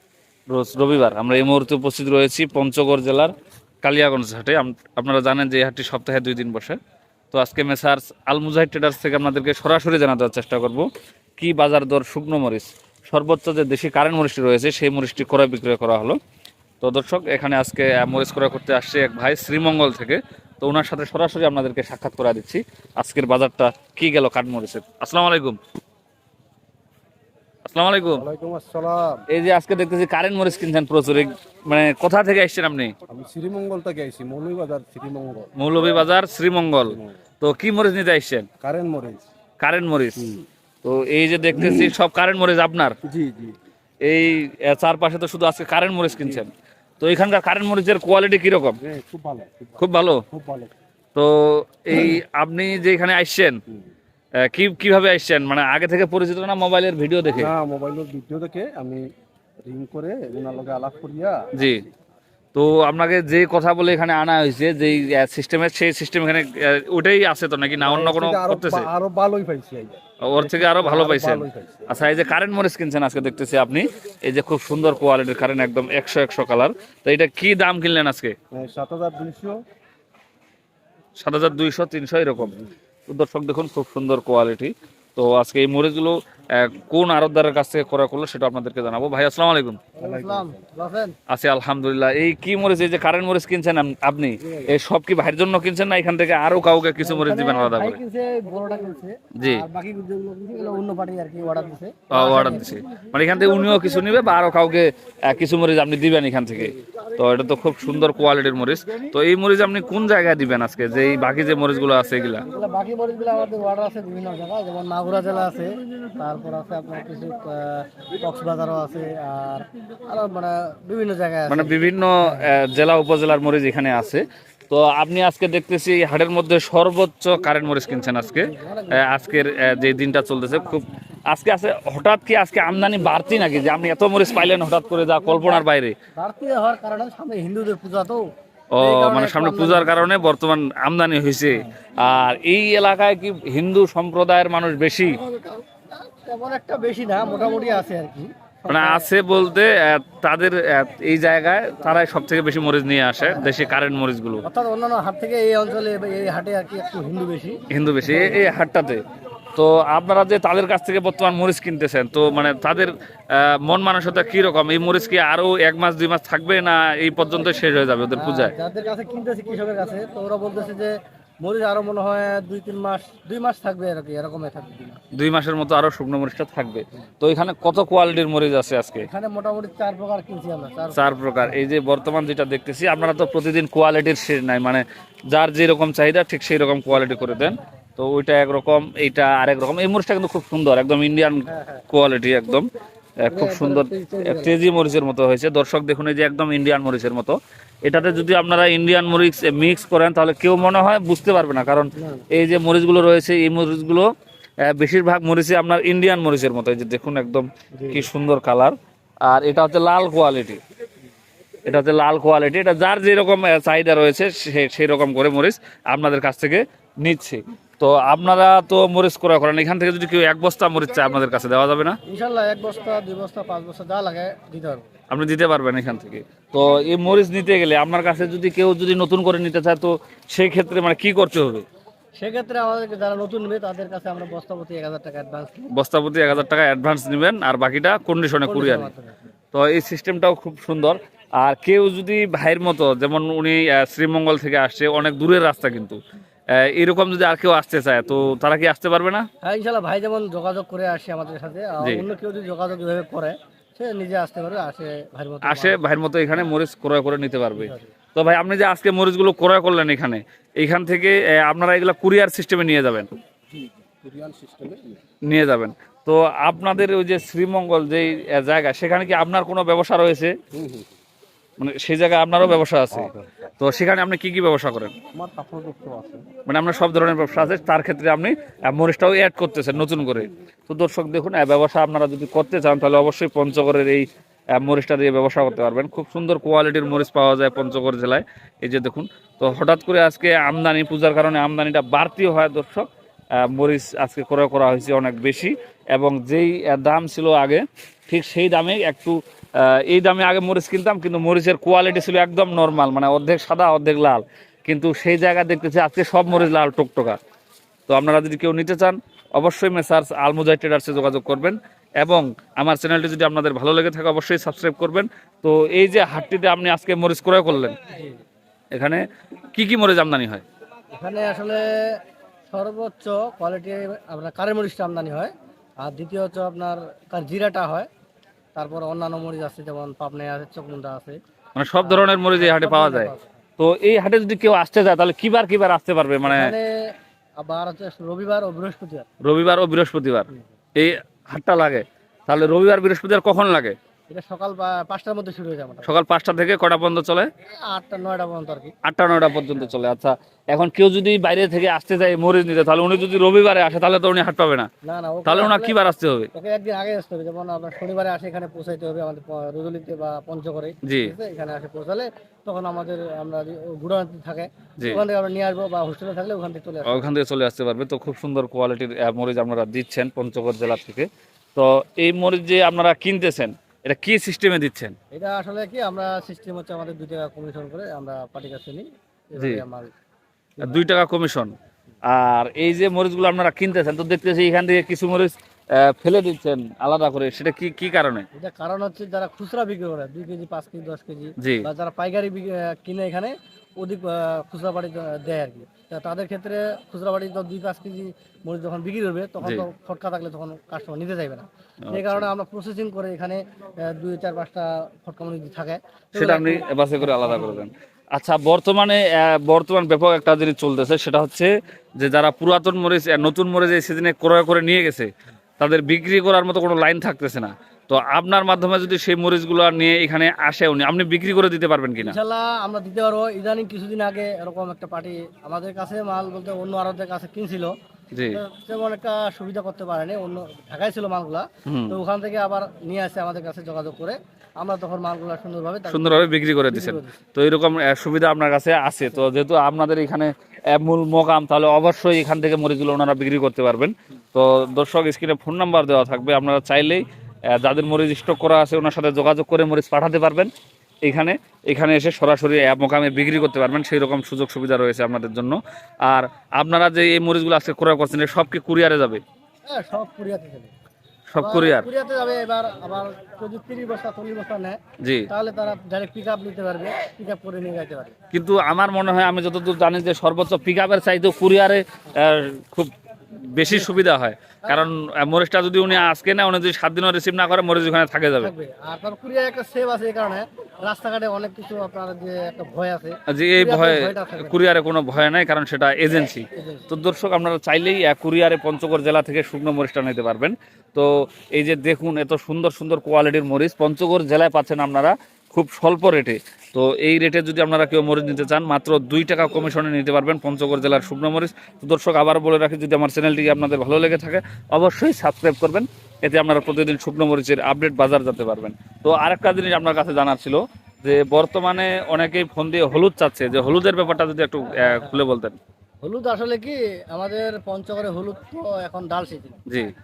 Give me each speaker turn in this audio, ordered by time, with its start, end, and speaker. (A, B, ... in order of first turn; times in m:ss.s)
0:00.5-0:03.3 A
0:03.8-0:06.8 A
0:07.3-0:10.8 A
0:11.4-0:16.2 A
0:16.8-0:25.6 A
0:27.6-0:28.2 A
0:28.1-0:29.2 B
0:29.3-0:32.9 A
0:33.1-0:35.5 B
0:35.6-0:38.5 A
0:38.6-0:39.2 B
0:39.6-0:43.0 A
0:41.5-0:41.9 B
0:43.0-0:43.6 B
0:44.0-0:48.8 A
0:48.8-0:49.7 B
0:49.8-0:50.2 A
0:50.3-0:50.7 B
0:51.1-0:53.6 A
0:54.4-0:57.5 A
0:57.4-0:59.1 B
0:59.6-1:01.5 B
1:01.6-1:01.8 A
1:02.5-1:08.9 A
1:07.8-1:11.8 B
1:10.2-1:18.4 A
1:18.5-1:19.6 B
1:21.2-1:29.8 A
1:30.0-1:31.1 C
1:30.0-1:30.6 B
1:31.3-1:38.0 A
1:37.0-1:42.8 C
1:39.4-1:39.6 A
1:42.1-1:52.4 A
1:52.4-2:02.5 C
2:01.5-2:15.9 A
2:08.4-2:09.0 C
2:16.2-2:18.2 C
2:18.7-2:25.2 A
2:18.8-2:20.0 C
2:25.2-2:29.1 C
2:28.7-2:34.4 A
2:33.2-2:33.5 C
2:34.4-2:38.4 C
2:37.7-2:39.0 A
2:39.6-2:48.5 A
2:48.1-2:55.0 C
2:55.1-2:59.1 A
2:59.0-3:01.0 C
3:00.9-3:12.7 A
3:11.5-3:11.8 C
3:13.2-3:24.1 A
3:13.3-3:14.5 C
3:22.0-3:22.2 C
3:24.6-3:30.6 A
3:27.8-3:28.1 C
3:31.6-3:42.0 A
3:42.1-3:44.9 C
3:45.1-3:51.6 A
3:52.2-3:55.7 C
3:55.7-3:58.9 A
3:58.4-3:59.2 C
3:59.5-4:06.0 A
4:06.5-4:09.3 A
4:09.4-4:15.8 C
4:15.4-4:23.1 A
4:17.5-4:17.9 C
4:24.0-4:25.0 B
4:25.3-4:30.3 A
4:30.5-4:30.9 B
4:31.6-4:34.9 A
4:32.9-4:33.3 B
4:35.1-4:36.3 B
4:36.5-4:52.8 A
4:53.4-5:07.2 A
5:07.9-5:17.8 A
5:17.9-5:18.2 C
5:18.7-5:20.4 A
5:21.0-5:21.6 C
5:22.5-5:27.9 C
5:28.6-5:31.2 C
5:31.6-5:36.5 A
5:31.8-5:33.3 C
5:36.2-5:36.7 C
5:37.4-5:39.1 C
5:39.2-5:43.8 A
5:44.1-5:45.9 C
5:45.8-5:47.3 A
5:47.5-5:48.7 C
5:48.8-5:54.7 A
5:54.8-5:55.7 C
5:55.2-5:56.3 A
5:56.3-6:07.1 C
6:00.8-6:01.1 A
6:06.8-6:14.9 A
6:15.1-6:19.9 C
6:20.6-6:20.8 C
6:20.6-6:21.5 A
6:22.1-6:28.2 A
6:28.3-6:47.6 C
6:31.4-6:31.7 A
6:41.8-6:42.3 A
6:46.1-7:02.2 A
7:02.0-7:07.7 C
7:08.1-7:08.4 A
7:08.3-7:17.1 C
7:11.6-7:12.0 A
7:15.9-7:30.5 A
7:31.0-7:39.2 A
7:39.6-7:40.7 C
7:41.3-7:41.9 A
7:41.4-7:44.8 C
7:45.0-7:45.3 A
7:45.3-7:48.1 C
7:48.3-7:52.9 A
7:53.5-7:58.5 A
7:53.6-7:54.0 C
7:54.6-7:54.9 C
7:58.4-8:04.6 C
8:03.3-8:35.6 A
8:06.6-8:06.8 C
8:34.8-8:35.2 C
8:36.0-8:39.6 C